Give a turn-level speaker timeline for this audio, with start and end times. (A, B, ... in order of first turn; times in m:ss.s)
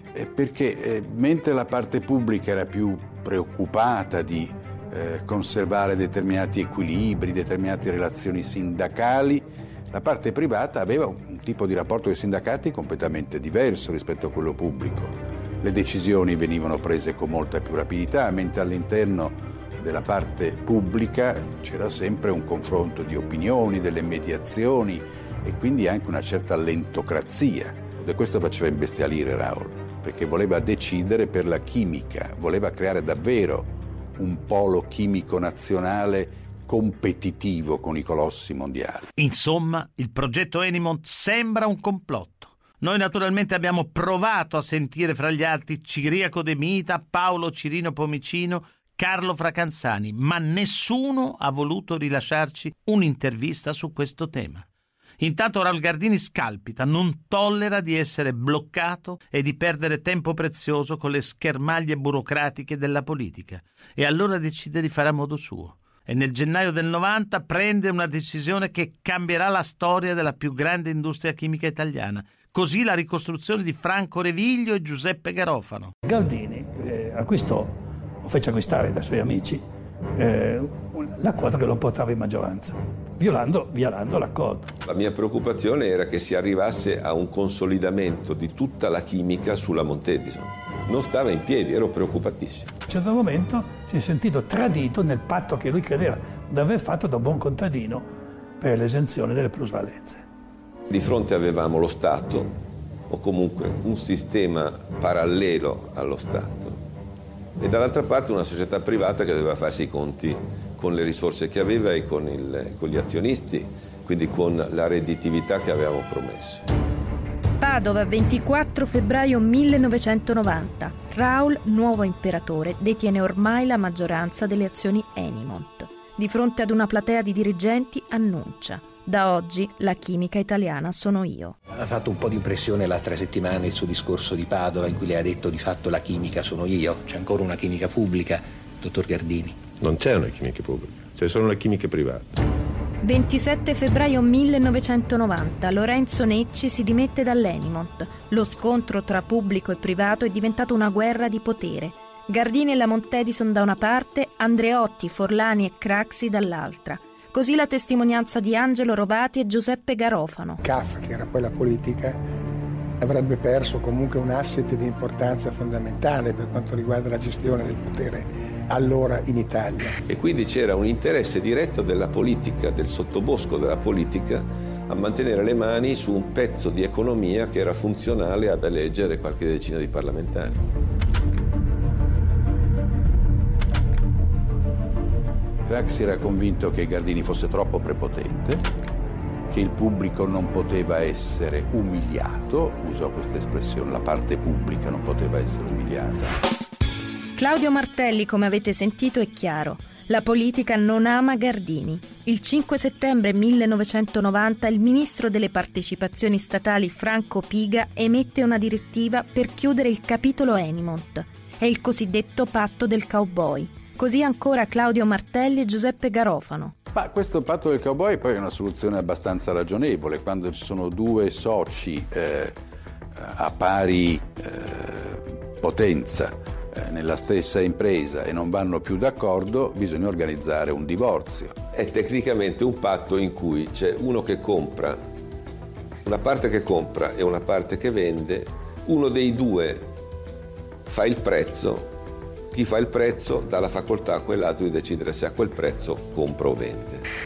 0:00.1-0:39.1 A
0:39.2-0:54.6 B
0:55.2-1:15.9 B
1:16.0-1:19.6 C
1:20.1-1:24.7 C
1:24.8-1:32.7 D
1:32.9-1:40.2 C
1:40.8-1:42.5 D
1:43.1-1:46.8 D
1:47.6-1:56.6 D
1:57.6-2:11.6 E
2:11.7-2:19.6 F
2:19.8-2:22.3 G
2:23.0-2:40.6 E
2:40.6-2:42.2 H
2:43.0-2:50.0 H
2:50.1-3:00.6 D
3:05.6-3:08.6 A
3:09.5-3:16.4 A
3:17.4-3:36.7 E
3:36.9-3:42.6 A
3:43.2-3:51.6 A
3:51.7-3:55.0 D
3:56.0-3:59.8 D
4:00.9-4:01.9 D
4:02.5-4:07.0 D